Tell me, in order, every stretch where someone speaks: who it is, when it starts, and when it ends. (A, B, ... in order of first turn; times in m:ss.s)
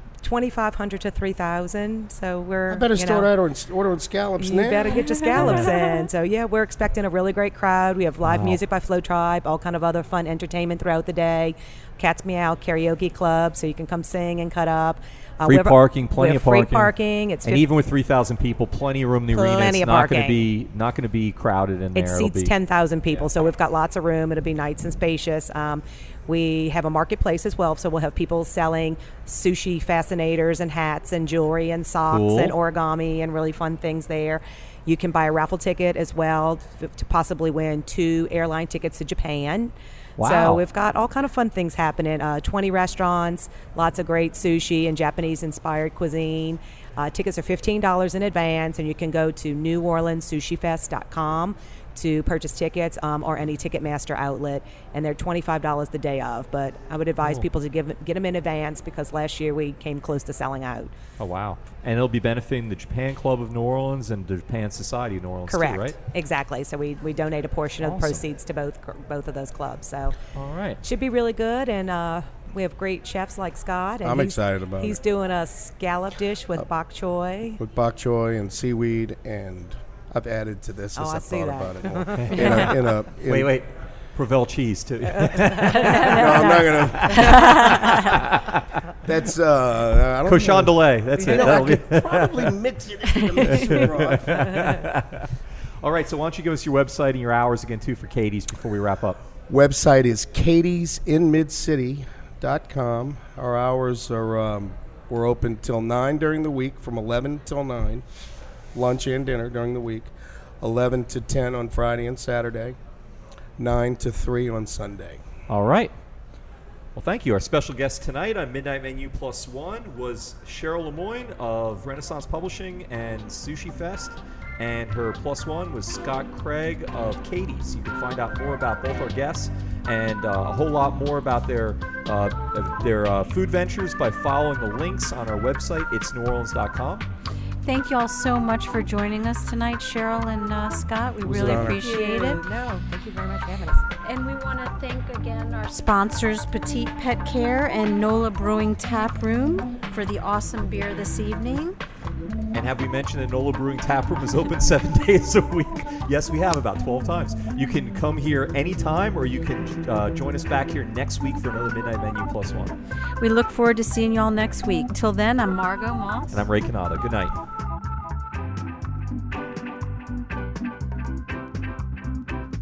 0:00.2-0:03.3 A
0:02.7-0:05.0 B
0:04.4-0:17.6 A
0:04.9-0:06.1 C
0:05.4-0:05.7 D
0:08.2-0:08.6 D
0:15.4-0:16.9 D
0:17.4-0:22.5 D
0:19.3-0:20.5 A
0:21.9-1:00.9 A
0:32.1-0:32.5 D
0:40.2-0:40.6 D
1:01.2-1:06.0 D
1:05.5-1:10.2 A
1:07.8-1:08.2 D
1:10.3-1:10.8 D
1:10.8-1:17.6 A
1:14.0-1:15.0 B
1:17.6-1:23.5 B
1:21.0-1:22.8 A
1:22.2-1:28.8 D
1:25.1-1:28.0 A
1:25.8-1:26.1 C
1:25.8-1:27.5 B
1:27.2-1:28.2 C
1:29.0-1:34.8 B
1:30.2-1:32.5 D
1:31.2-1:31.6 A
1:33.4-1:39.2 D
1:39.5-1:48.0 B
1:48.7-1:52.8 B
1:53.6-1:55.2 B
1:55.5-1:55.9 D
1:56.9-2:17.1 D
2:17.6-2:22.4 C
2:21.2-2:21.9 B
2:21.5-2:23.8 A
2:24.0-2:31.8 C
2:32.5-2:42.8 D
2:43.2-2:46.4 C
2:46.3-2:47.4 D